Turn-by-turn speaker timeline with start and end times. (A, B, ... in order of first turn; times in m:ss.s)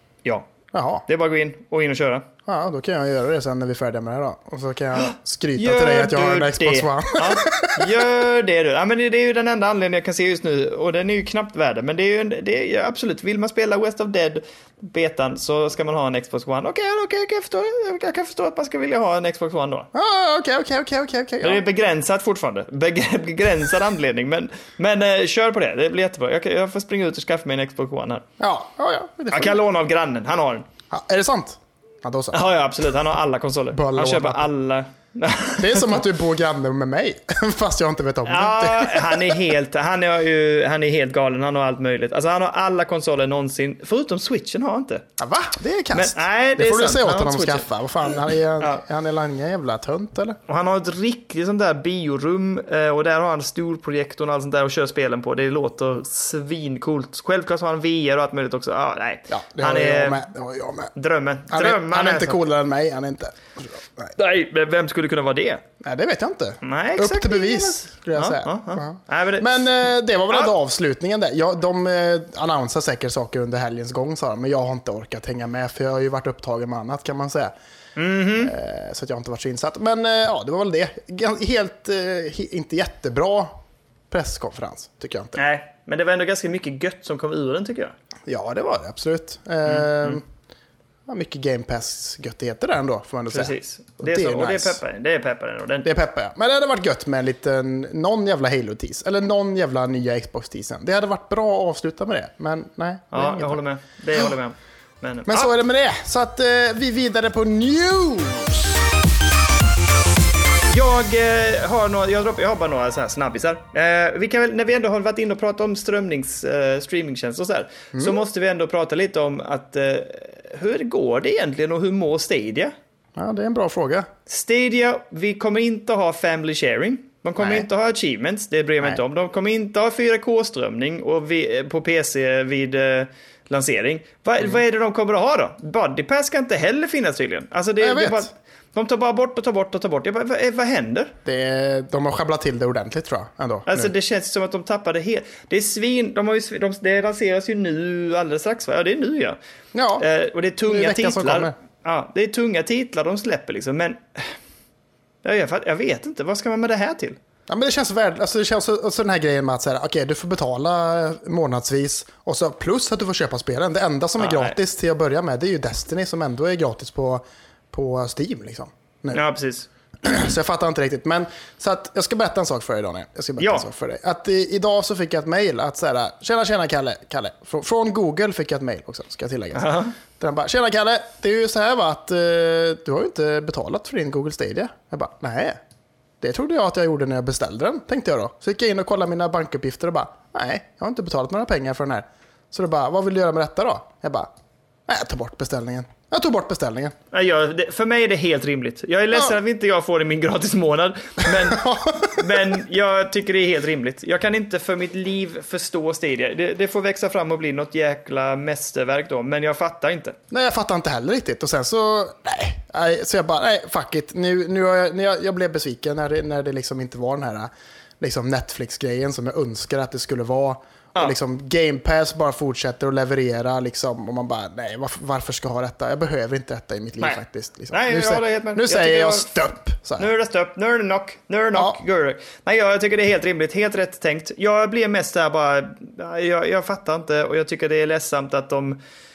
0:00.7-0:01.0 A
0:01.1-0:02.3 B
0:02.5-0:08.0 A
0:05.6-0:19.9 B
0:19.9-0:21.6 A
0:21.4-0:28.2 B
0:28.4-0:29.6 A
0:29.3-0:30.6 B
0:30.9-0:32.4 A
0:32.3-0:36.0 B
0:33.7-0:34.5 A
0:35.6-0:39.4 A
0:38.3-0:45.0 B
0:45.2-0:50.4 A
0:45.9-0:48.8 B
0:50.5-1:00.3 B
0:59.3-1:00.9 A
1:00.9-1:02.4 B
1:01.5-1:04.2 A
1:04.2-1:05.6 B
1:05.8-1:17.5 A
1:06.6-1:09.8 B
1:18.0-1:18.5 B
1:18.4-1:23.6 A
1:24.1-1:25.4 A
1:25.4-1:27.9 B
1:28.3-1:30.2 A
1:29.6-1:30.2 B
1:31.1-1:34.8 A
1:33.3-1:35.9 B
1:35.8-1:43.6 A
1:43.1-1:45.5 B
1:45.3-1:48.8 A
1:50.7-2:02.7 B
1:57.9-1:58.2 A
2:03.2-2:04.1 A
2:04.3-2:21.2 B
2:07.4-2:07.7 A
2:17.8-2:18.3 A
2:21.2-2:23.9 A
2:23.6-2:29.4 B
2:29.7-2:30.1 A
2:30.0-2:34.4 B
2:30.6-2:31.5 A
2:35.2-2:37.2 B
2:37.5-2:49.2 A
2:44.2-2:44.6 B
2:49.1-2:49.7 B
2:50.0-3:05.6 A
2:53.4-2:53.7 B
2:59.6-2:59.9 B
3:06.2-3:14.3 A
3:14.9-3:16.9 A
3:17.1-3:30.2 B
3:21.4-3:22.2 A
3:30.3-3:50.1 A
3:47.0-3:49.3 B
3:50.0-3:58.8 B
3:51.5-3:51.8 A